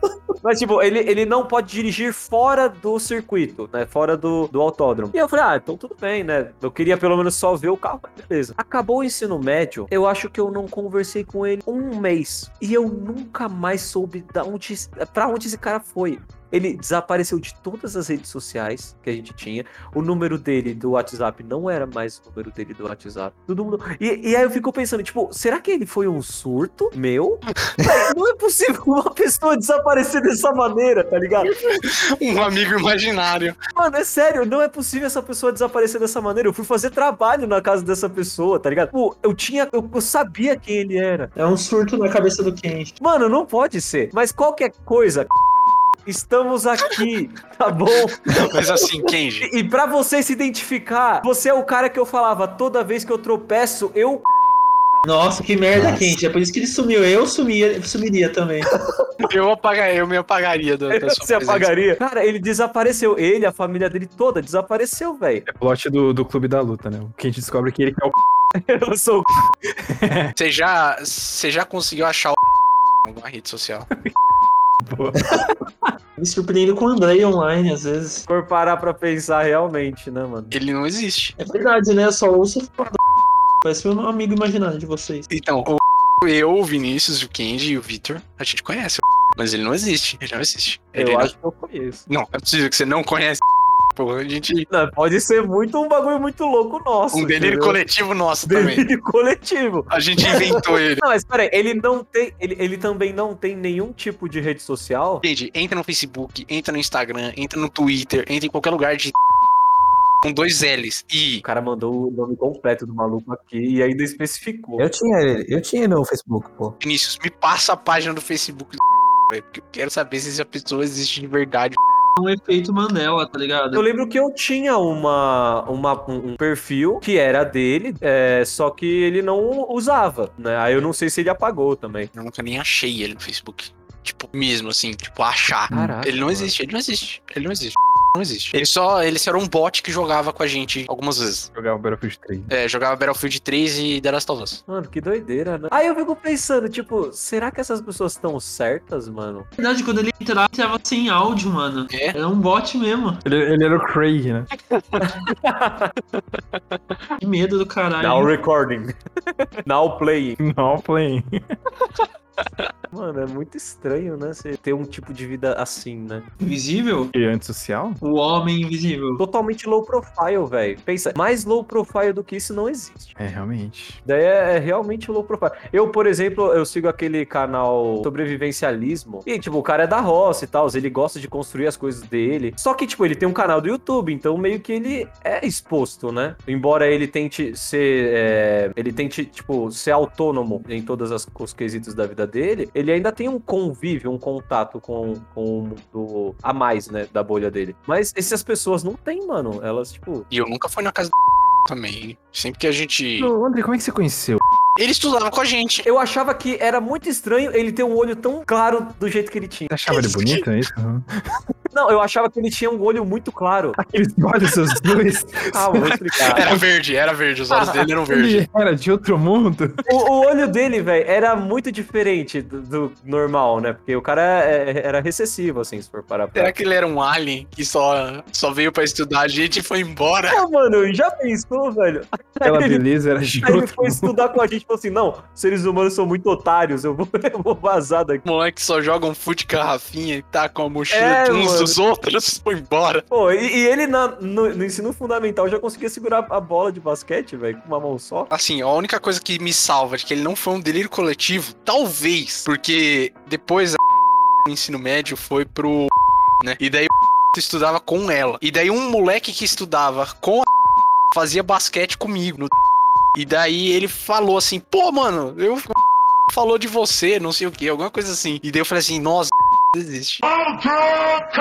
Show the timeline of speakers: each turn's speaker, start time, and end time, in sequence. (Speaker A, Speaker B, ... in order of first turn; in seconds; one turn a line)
Speaker A: 0.4-31.5
Speaker B: 31.5-33.6
Speaker A: 33.8-41.3
Speaker C: 41.4-42.9
Speaker A: 43.0-45.3
Speaker A: 46.1-48.2
Speaker B: 48.3-49.5
Speaker A: 49.4-54.2
Speaker C: 55.0-58.7
Speaker B: 59.2-61.7
Speaker A: 60.9-65.5
Speaker D: 65.5-68.1
Speaker A: 68.5-69.3
Speaker D: 69.9-70.3
Speaker B: 70.4-72.4
Speaker B: 73.1-73.9
Speaker D: 74.8-75.9
Speaker C: 76.2-78.2
Speaker A: 78.3-80.5
Speaker B: 80.5-81.4
Speaker C: 81.4-83.0
Speaker C: 83.6-85.3
Speaker B: 85.3-91.3
Speaker A: 90.9-92.1
Speaker B: 92.1-93.4
Speaker B: 93.9-94.7
Speaker A: 94.7-97.8
Speaker B: 97.1-98.8
Speaker A: 98.5-100.5
Speaker B: 99.9-101.0
Speaker A: 101.0-105.2
Speaker B: 105.2-109.1
Speaker B: 110.2-111.4
Speaker A: 111.4-114.8
Speaker E: 114.8-116.8
Speaker B: 116.8-121.8
Speaker C: 122.2-123.8
Speaker A: 123.7-132.1
Speaker B: 132.1-141.5
Speaker A: 135.7-136.6
Speaker D: 141.5-142.5
Speaker B: 142.5-144.6
Speaker A: 144.7-149.5
Speaker C: 149.6-153.2
Speaker B: 151.9-152.2
Speaker D: 153.2-155.1
Speaker A: 155.0-155.9
Speaker C: 157.2-158.3
Speaker A: 158.0-159.0
Speaker A: 159.7-160.4
Speaker D: 160.4-161.4
Speaker A: 162.9-166.3
Speaker C: 166.4-167.1
Speaker D: 167.1-168.0
Speaker C: 168.0-169.2
Speaker A: 169.2-173.2
Speaker D: 173.2-174.0
Speaker A: 174.0-200.3
Speaker B: 200.3-201.1
Speaker B: 201.7-203.3
Speaker D: 203.2-204.4
Speaker B: 204.8-205.9
Speaker A: 205.8-209.7
Speaker D: 209.7-211.1
Speaker B: 209.9-210.4
Speaker A: 211.7-213.8
Speaker D: 213.8-216.0
Speaker A: 215.5-216.5
Speaker B: 216.3-218.4
Speaker D: 218.1-219.9
Speaker A: 219.9-226.5
Speaker B: 226.3-230.4
Speaker A: 230.3-232.8
Speaker D: 232.4-234.2
Speaker A: 233.4-238.2
Speaker B: 238.2-243.1
Speaker A: 240.9-241.8
Speaker A: 243.1-248.3
Speaker B: 248.3-253.8
Speaker B: 254.4-260.4
Speaker B: 261.1-262.5
Speaker B: 263.2-265.7
Speaker B: 266.3-270.2